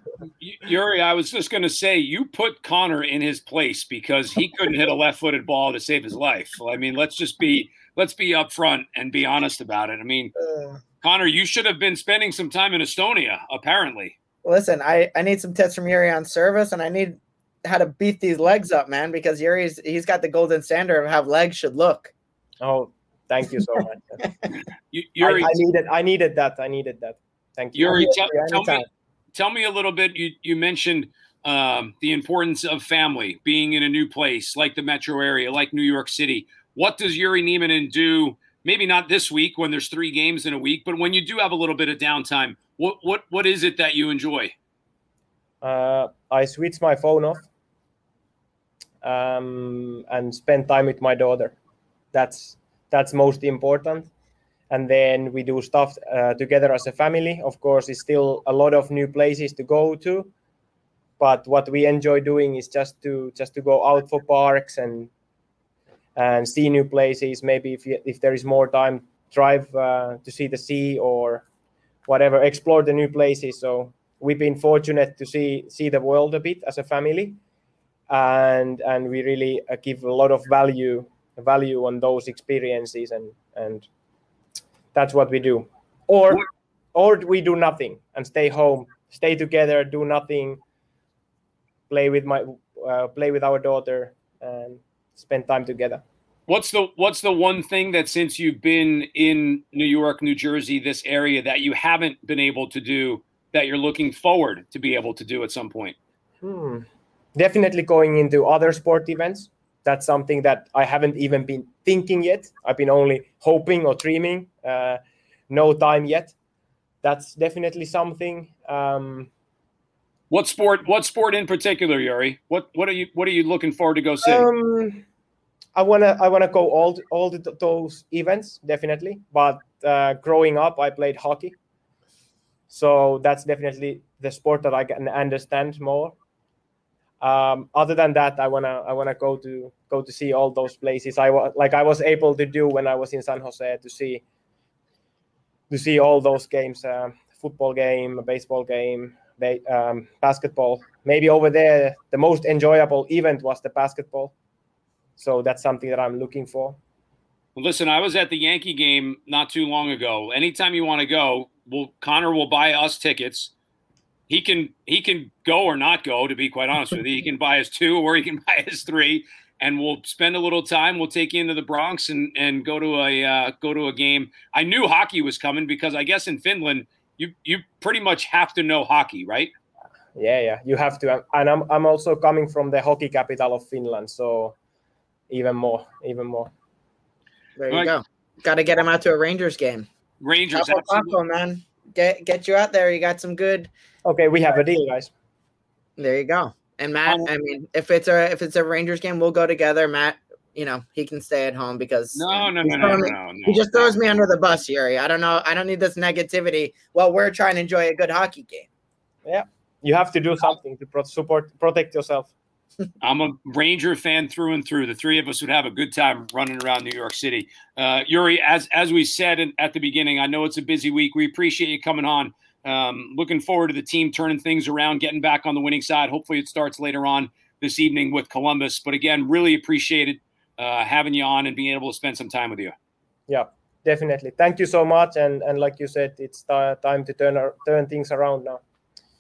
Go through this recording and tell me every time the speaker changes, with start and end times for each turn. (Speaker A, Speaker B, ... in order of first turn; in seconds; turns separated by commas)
Speaker A: 0.4-10.3, Speaker B: 10.4-10.8, Speaker A: 11.0-14.1, Speaker B: 14.4-22.1, Speaker C: 22.6-24.2, Speaker A: 24.9-25.5, Speaker C: 25.2-28.9, Speaker A: 27.7-28.8, Speaker A: 29.3-44.5, Speaker C: 45.6-47.5, Speaker C: 49.0-51.6, Speaker C: 52.1-54.1, Speaker C: 54.7-60.3, Speaker C: 61.2-65.1, Speaker C: 66.1-71.4, Speaker C: 72.1-77.4, Speaker C: 78.1-83.9, Speaker C: 84.9-90.6, Speaker C: 91.9-96.0, Speaker A: 96.5-106.0, Speaker C: 106.4-116.3, Speaker C: 117.0-119.3, Speaker A: 120.3-124.5, Speaker C: 124.2-125.0, Speaker C: 125.7-131.6, Speaker C: 132.7-136.2, Speaker C: 137.2-144.2, Speaker C: 145.7-154.3, Speaker C: 155.2-156.8, Speaker A: 157.6-163.5, Speaker A: 164.3-179.5, Speaker C: 180.1-184.6, Speaker C: 185.3-186.5, Speaker B: 187.6-189.9, Speaker A: 190.2-191.1, Speaker B: 190.5-193.7, Speaker C: 194.0-195.1, Speaker B: 196.0-208.7, Speaker A: 202.1-204.2, Speaker C: 209.2-212.3, Speaker A: 213.0-232.7, Speaker C: 233.3-238.6